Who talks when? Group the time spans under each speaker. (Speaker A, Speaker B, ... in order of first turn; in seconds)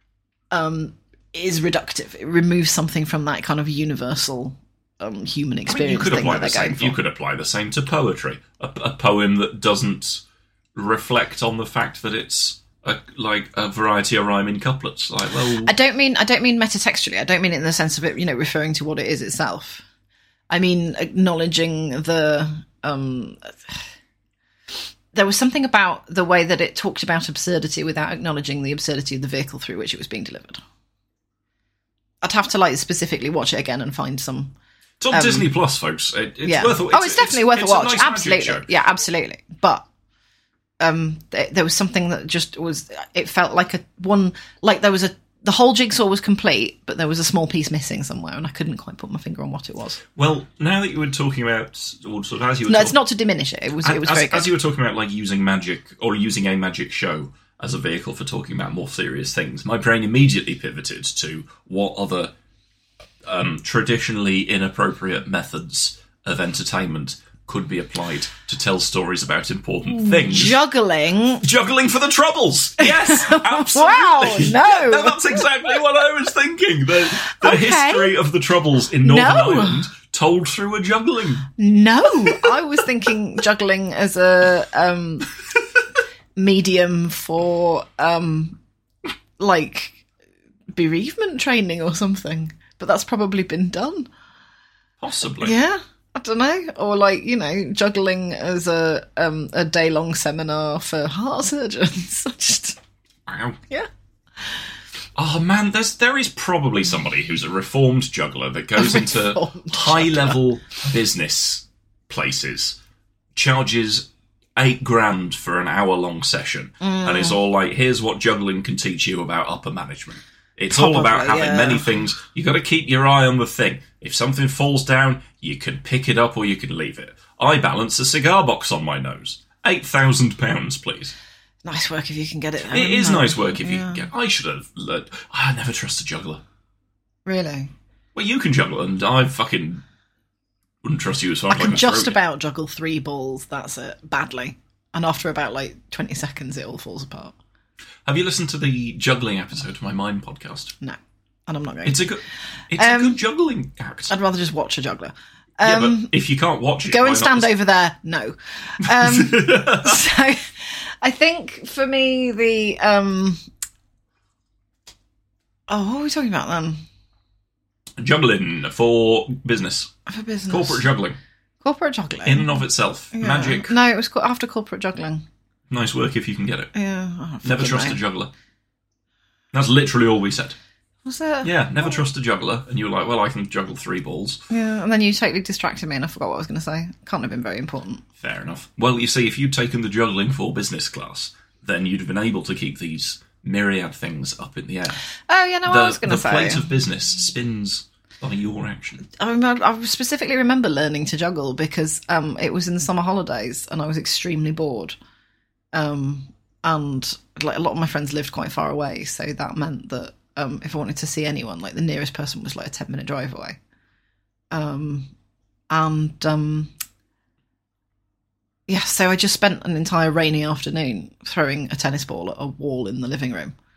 Speaker A: 0.5-7.0, 15.6-19.8, 20.5-23.7, 25.1-30.6, 32.2-34.5, 35.1-35.5, 36.4-39.9, 40.8-50.0, 52.7-54.5, 69.9-71.4, 72.8-75.5, 77.1-78.1, 79.0-79.8, 81.6-85.3, 86.3-88.6, 89.4-90.0, 90.7-94.1, 95.4-102.8, 108.8-110.4, 116.8-117.4, 120.7-121.9, 131.6-134.1, 137.2-137.7, 141.5-147.3, 150.8-152.1, 152.7-153.2, 154.1-156.1, 156.8-163.4, 165.7-166.8, 170.1-170.9, 171.6-175.2, 176.7-178.0, 181.0-182.0, 184.5-188.0, 195.3-196.6, 199.1-205.0, 205.7-213.6, 214.5-215.1, 215.7-216.7, 218.7-223.5
Speaker B: 5.7-10.2, 10.7-15.7, 35.0-38.7, 50.1-53.0, 53.8-62.3, 63.2-70.6, 71.4-81.5, 82.2-82.5, 95.0-95.5, 103.3-103.6, 105.2-112.8, 113.3-131.1, 132.7-136.4, 138.1-139.8, 140.8-142.2, 148.0-150.7, 151.8-154.1, 155.6-157.5, 158.8-160.0, 168.0-169.9, 170.5-171.2, 172.2-173.7, 175.7-176.7, 177.4-178.3, 179.5-180.6, 181.4-184.4, 188.2-195.0, 195.7-199.0